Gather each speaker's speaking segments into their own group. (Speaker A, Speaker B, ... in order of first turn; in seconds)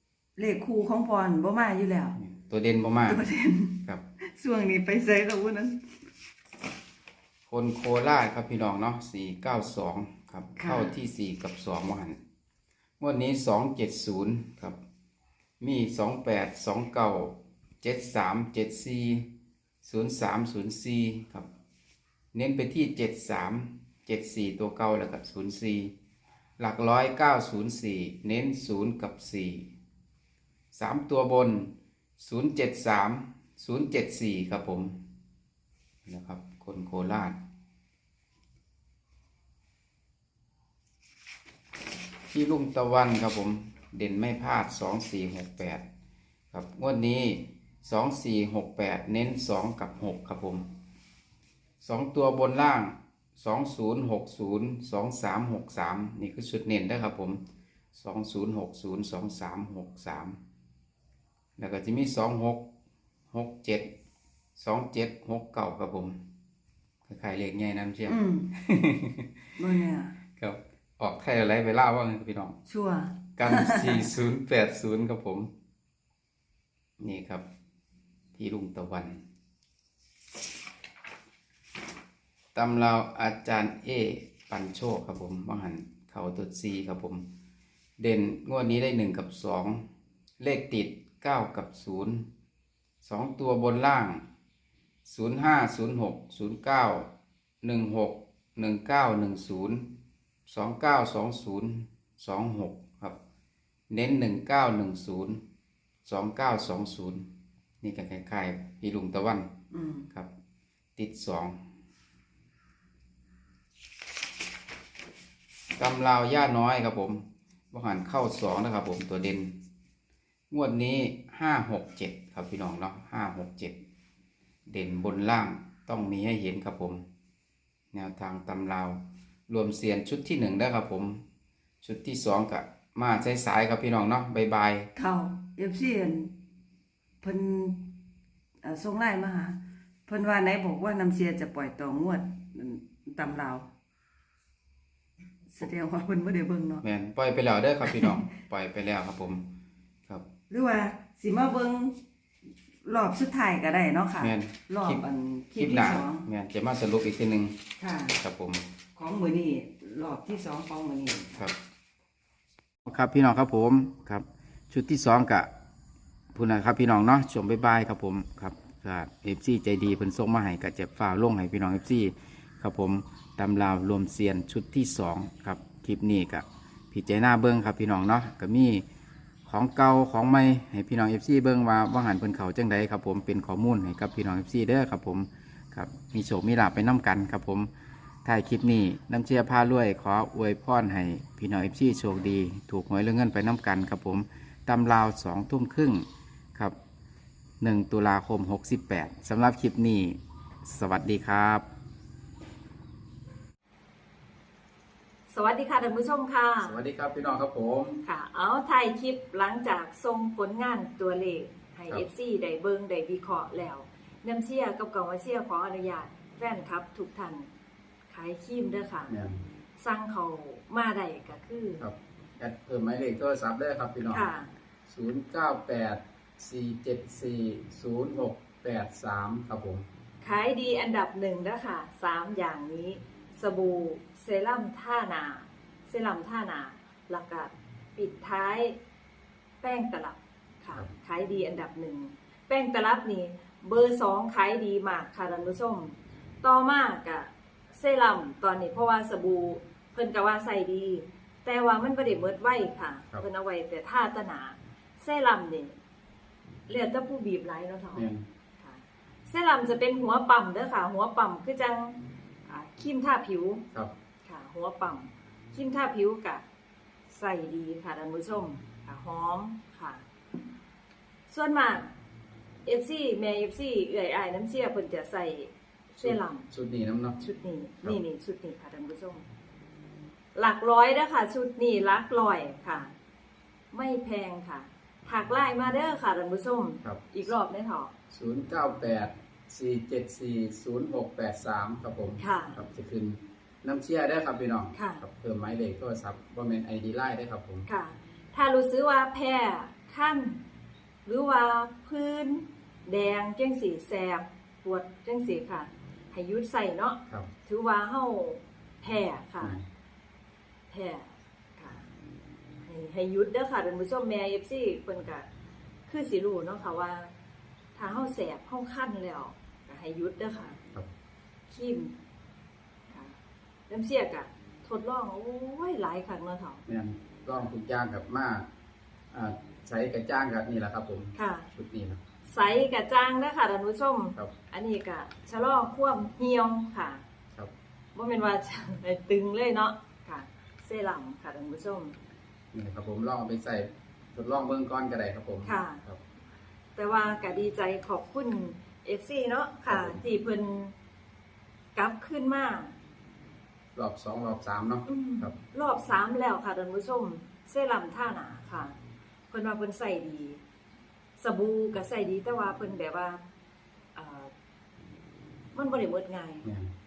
Speaker A: 0.4-2.2, 3.1-5.8, 10.6-10.9, 68.1-68.5, 69.6-70.2, 72.7-74.1, 109.7-110.1, 135.0-136.3, 137.2-137.9, 138.6-143.7, 145.5-146.8, 147.8-148.2, 150.5-152.0, 152.8-156.3, 157.8-158.2, 159.0-161.4
Speaker B: 2.2-3.2, 7.5-12.2, 13.0-14.8, 15.6-19.3, 19.8-21.5, 22.3-25.9, 26.6-29.7, 30.7-35.0, 36.1-37.4, 42.3-45.9, 46.5-50.7, 51.8-57.4, 57.9-60.4, 61.6-62.7, 63.3-63.9, 64.6-66.2, 67.0-69.5, 70.4-72.6, 73.4-75.5, 77.0-77.5, 78.3-79.2, 82.5-87.3, 88.0-89.9, 90.4-92.3, 93.0-94.2, 95.0-97.1, 97.6-99.9, 100.5-103.2, 103.9-105.4, 106.1-107.3, 107.8-109.5, 111.0-111.6, 115.8-119.5, 120.5-123.8, 124.7-127.0, 127.9-131.2, 131.8-134.9, 146.8-149.5, 154.2-157.6, 158.2-158.7, 162.9-165.5, 166.3-178.8, 179.4-187.7, 188.2-196.8, 197.6-201.7, 206.6-208.0, 219.1-219.4, 221.8-224.3, 224.9-229.9, 257.9-258.3, 276.0-277.2, 288.1-297.7, 309.4-309.6, 326.7-328.5, 329.1-332.0, 342.5-346.0, 349.7-350.0, 353.8-355.4, 366.4-366.7
Speaker C: 205.3-206.8, 208.0-217.5, 218.1-219.1, 219.8-221.8, 224.1-224.5, 230.2-238.8, 239.6-255.8, 256.7-258.1, 258.6-263.6, 264.2-266.4, 267.1-270.1, 271.3-271.9, 272.6-276.5, 277.2-279.2, 280.4-282.9, 283.7-287.9, 292.2-292.6, 294.8-295.0, 297.7-300.4, 301.1-309.6, 310.7-311.9, 312.6-315.3, 315.9-317.1, 317.8-320.6, 321.5-321.9, 322.9-323.2, 323.7-326.6, 331.2-331.5, 332.3-337.0, 337.9-342.0, 345.4-345.8, 346.8-350.7, 351.8-352.7, 354.9-358.8, 359.3-360.4, 361.2-363.2, 363.9-364.3, 365.5-366.5